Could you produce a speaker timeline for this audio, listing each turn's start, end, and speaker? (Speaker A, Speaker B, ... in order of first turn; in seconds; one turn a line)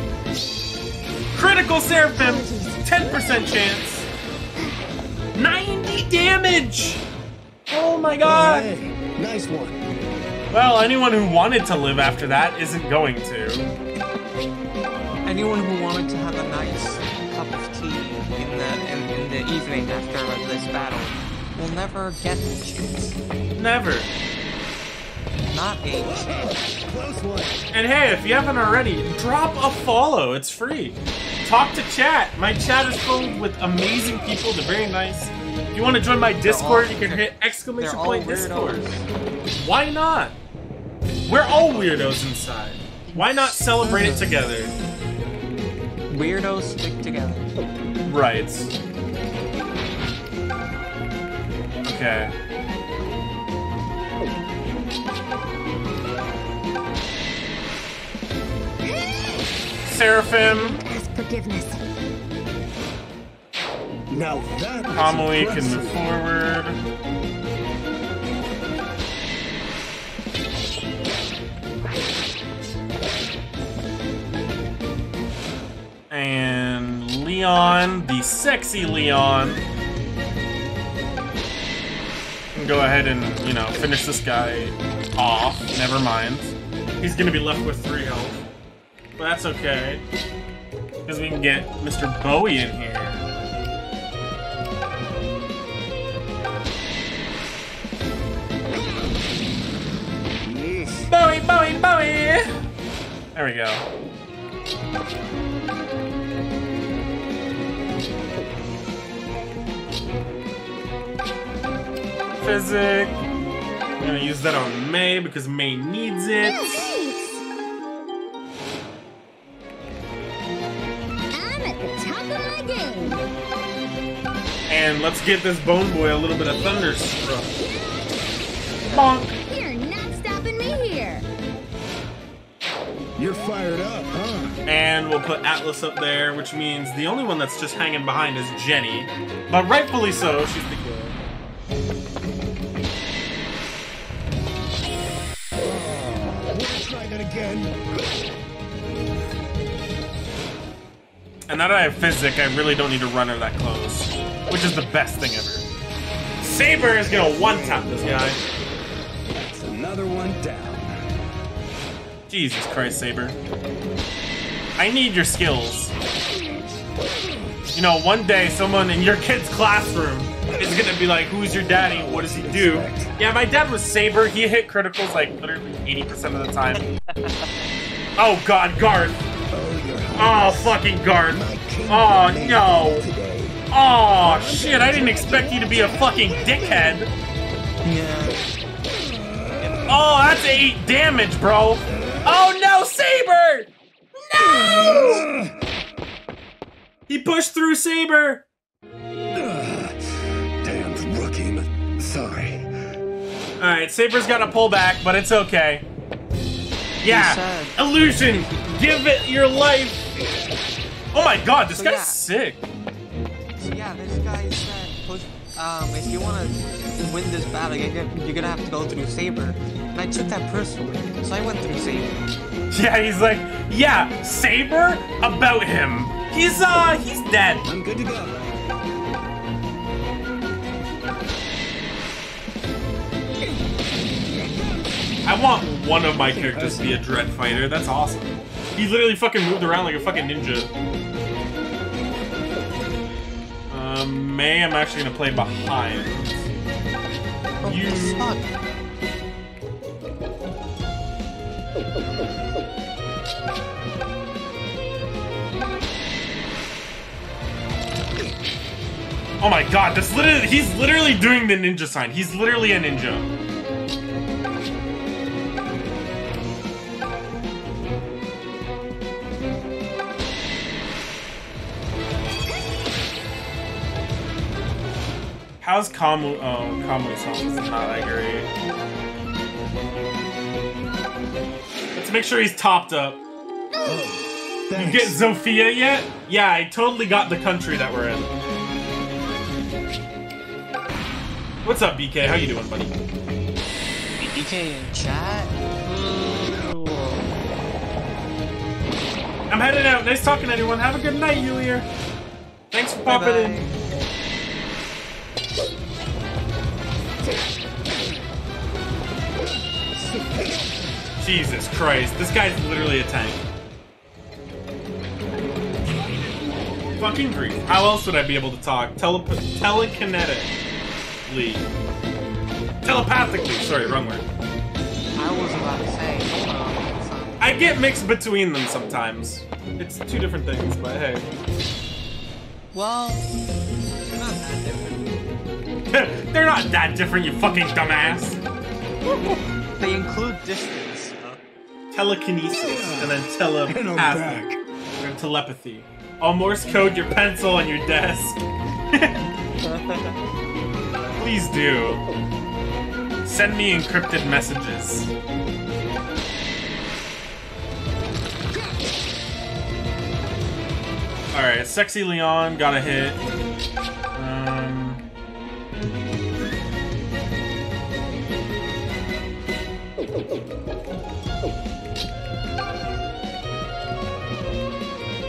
Speaker A: 1.3-4.1
Speaker B: 2.1-3.5
Speaker A: 5.3-7.0
Speaker A: 7.7-8.7
Speaker C: 8.2-9.8
Speaker A: 10.5-13.7
Speaker D: 15.2-23.2
Speaker A: 23.6-24.1
Speaker D: 25.5-26.4
Speaker C: 26.0-27.6
Speaker A: 27.7-38.9
Speaker D: 36.4-39.0
Speaker A: 39.5-40.4
Speaker A: 41.2-44.7
Speaker D: 41.5-42.1
Speaker D: 43.8-44.4
Speaker D: 46.1-47.5
Speaker A: 48.0-48.8
Speaker A: 51.8-52.3
Speaker B: 58.9-59.3
Speaker A: 59.8-60.8
Speaker B: 60.5-61.8
Speaker C: 64.1-66.0
Speaker A: 64.9-66.8
Speaker A: 76.1-79.7
Speaker A: 82.5-88.5
Speaker A: 89.2-90.0
Speaker A: 91.0-93.2
Speaker C: 98.8-99.1
Speaker C: 100.4-101.1
Speaker A: 101.1-102.5
Speaker A: 103.3-103.8
Speaker A: 112.3-113.2
Speaker A: 114.0-116.9
Speaker B: 116.4-117.4
Speaker B: 121.3-123.2
Speaker A: 124.7-127.5
Speaker B: 127.6-131.3
Speaker A: 128.9-129.3
Speaker C: 133.2-134.6
Speaker A: 134.7-141.2
Speaker C: 145.6-148.4
Speaker A: 151.5-155.7
Speaker A: 156.4-158.4
Speaker C: 157.0-157.9
Speaker C: 159.3-160.9
Speaker A: 162.3-163.4
Speaker A: 164.8-165.9
Speaker C: 166.3-167.5
Speaker A: 167.7-176.8
Speaker C: 170.5-170.8
Speaker C: 171.7-173.1
Speaker D: 177.1-177.5
Speaker A: 178.2-179.2
Speaker C: 179.5-180.8
Speaker A: 180.1-183.1
Speaker C: 181.3-183.6
Speaker A: 183.7-187.1
Speaker C: 184.2-186.9
Speaker D: 187.8-188.4
Speaker C: 188.9-189.9
Speaker D: 189.6-189.9
Speaker A: 189.9-193.7
Speaker C: 191.9-192.3
Speaker A: 194.3-195.3
Speaker C: 194.4-195.6
Speaker A: 197.1-198.4
Speaker C: 199.3-202.7
Speaker A: 203.6-205.8
Speaker A: 207.0-210.0
Speaker D: 207.0-208.6
Speaker A: 211.1-212.7
Speaker D: 211.7-212.2
Speaker D: 213.6-222.2
Speaker A: 222.7-227.7
Speaker C: 227.6-228.6
Speaker C: 234.2-235.0
Speaker A: 235.2-240.7
Speaker C: 236.2-237.0
Speaker A: 243.7-246.5
Speaker D: 247.6-248.5
Speaker A: 247.6-248.4
Speaker A: 252.0-252.6
Speaker A: 259.4-263.3
Speaker A: 275.6-278.5
Speaker A: 281.9-283.2
Speaker B: 283.7-284.0
Speaker C: 283.8-285.2
Speaker A: 284.7-288.3
Speaker A: 291.6-292.9
Speaker D: 294.2-297.3
Speaker A: 299.5-301.9
Speaker A: 302.7-303.6
Speaker D: 303.0-303.7
Speaker C: 310.0-310.8
Speaker A: 311.2-313.4
Speaker A: 317.0-320.5
Speaker A: 321.2-321.7
Speaker A: 322.8-324.3
Speaker D: 325.1-327.5
Speaker A: 327.4-331.3
Speaker D: 332.7-333.2
Speaker D: 334.1-335.1
Speaker A: 335.9-338.4
Speaker D: 339.1-341.4
Speaker A: 341.9-344.4
Speaker C: 342.5-344.6
Speaker A: 345.0-349.2
Speaker D: 349.6-350.2
Speaker A: 351.2-352.0
Speaker A: 353.2-355.1
Speaker A: 361.3-363.2
Speaker A: 364.1-365.0